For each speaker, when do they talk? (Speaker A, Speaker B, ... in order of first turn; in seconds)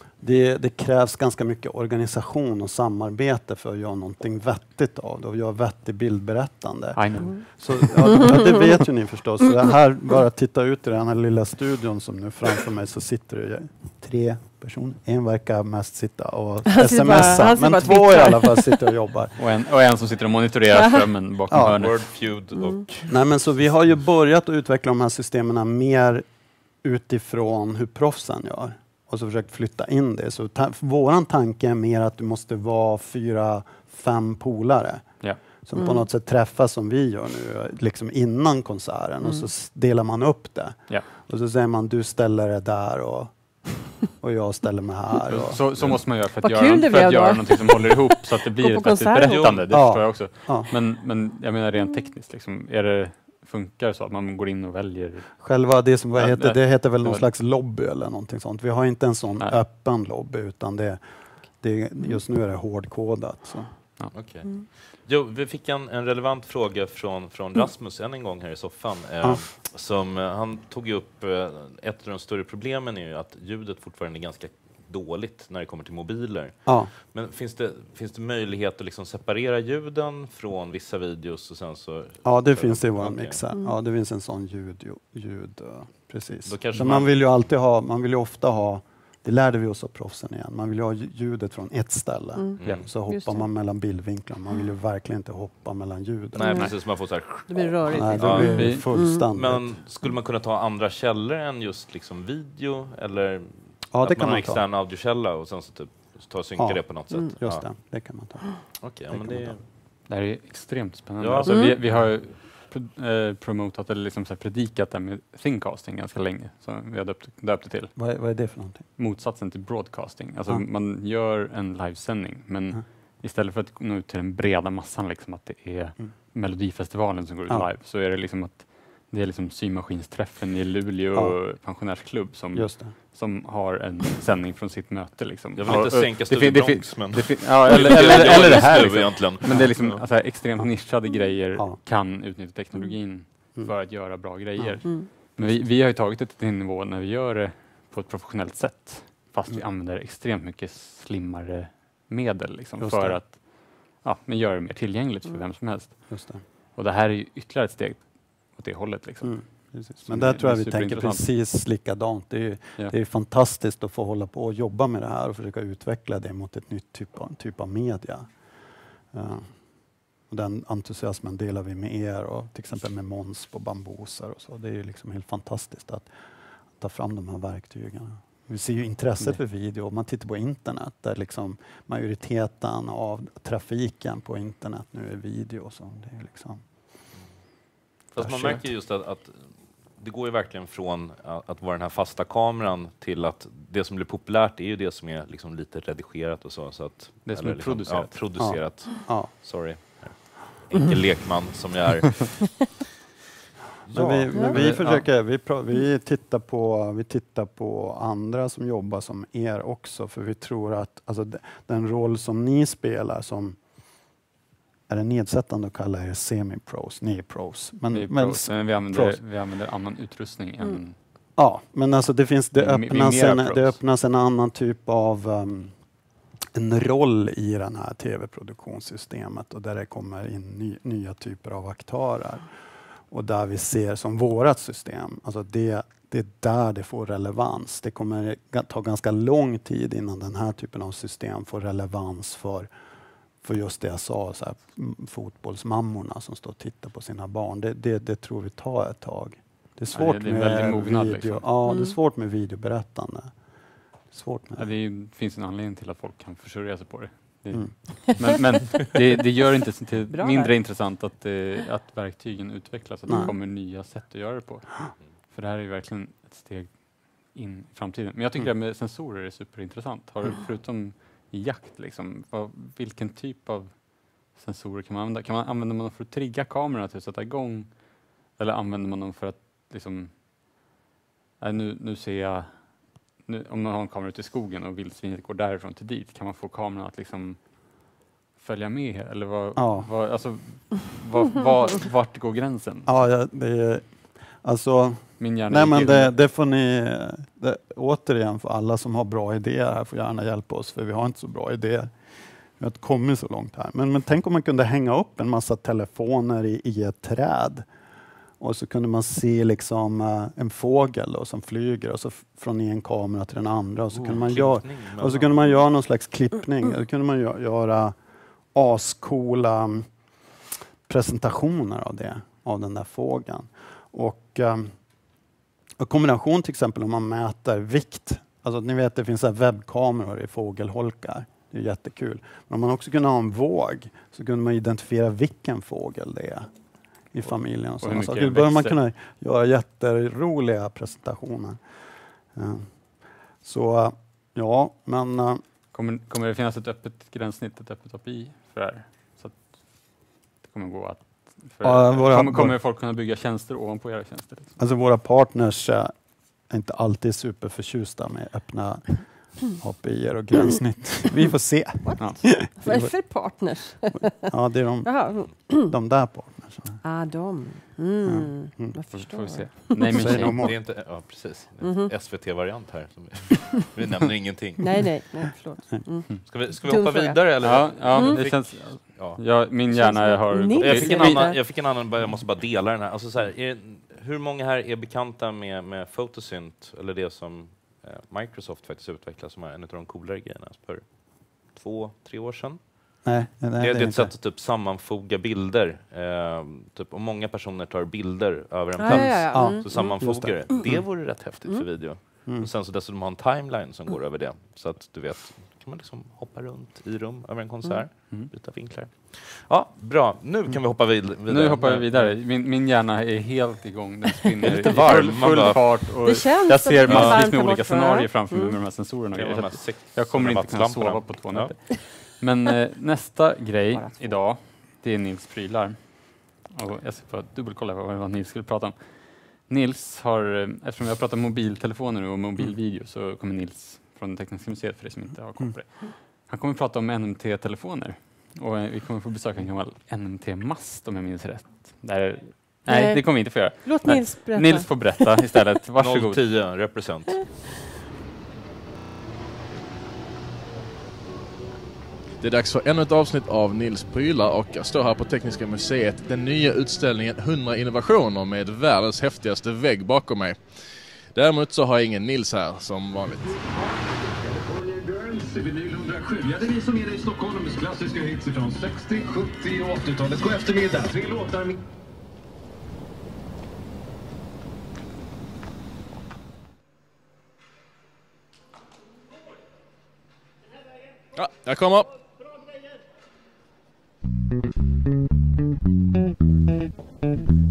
Speaker A: 0.2-19.3, 21.5-21.8, 23.1-26.2, 26.8-35.1, 35.6-46.0, 49.7-50.7, 55.4-61.0, 61.6-63.7, 76.7-76.9, 82.2-96.7, 97.9-99.7, 103.9-104.6, 106.6-108.5, 109.1-109.6, 118.0-118.8, 132.5-132.9, 139.5-139.7, 152.8-153.2, 156.1-156.4, 159.2-168.3, 169.1-169.5, 170.3-176.1, 176.8-186.6, 188.2-188.5, 198.4-199.3, 203.9-213.6, 214.9-219.2, 221.3-225.7, 226.5-232.4, 233.1-242.7, 243.4-253.3, 254.1-254.7, 289.6-289.9, 292.9-293.9, 294.4-301.9, 302.6-307.6, 308.4-317.9, 318.5-319.9, 320.9-324.7, 325.8-336.5, 337.1-341.6, 342.3-342.7, 343.4-345.4, 351.6-352.6, 354.6-355.9, 356.5-362.9, 364.1-366.8, 368.0-368.7, 369.9-370.6, 393.0-394.1, 398.9-400.3
Speaker B: 7.0-7.8, 19.4-22.0, 45.2-55.3, 56.1-57.2, 98.3-98.8, 110.1-117.9, 119.0-156.1, 156.8-161.2, 188.1-188.6, 197.2-198.2, 204.5-205.1, 217.9-220.9, 222.6-223.8, 249.9-251.4, 254.6-264.8, 265.3-280.1, 281.4-282.6, 283.2-287.4, 288.4-292.9, 295.2-296.1, 337.8-338.8, 345.7-349.8, 350.4-354.5, 368.9-370.4, 377.4-381.3, 411.3-428.7, 429.4-446.3
Speaker C: 8.1-8.6, 16.7-18.8, 20.7-21.0, 35.7-36.0, 46.4-49.6, 92.3-93.4, 97.5-99.2, 111.4-111.8, 251.7-251.9, 260.1-260.5, 361.8-364.1, 364.8-365.7, 366.8-370.1, 371.6-371.9, 374.6-378.2, 379.7-381.4, 398.8-400.0, 416.0-418.6, 423.7-424.1, 442.7-445.0
Speaker D: 21.6-23.2, 64.1-83.4, 86.5-87.1, 92.6-92.9, 96.3-107.6, 108.8-109.6, 111.2-111.8, 135.6-140.0, 188.2-202.7, 203.9-204.5, 313.9-315.5, 370.3-374.9, 376.2-379.4, 380.5-392.9, 393.6-412.1, 414.4-415.9, 416.9-417.2, 419.1-421.8, 445.8-447.2
Speaker E: 452.2-460.4, 461.1-463.5, 481.1-481.9
Speaker F: 464.4-471.5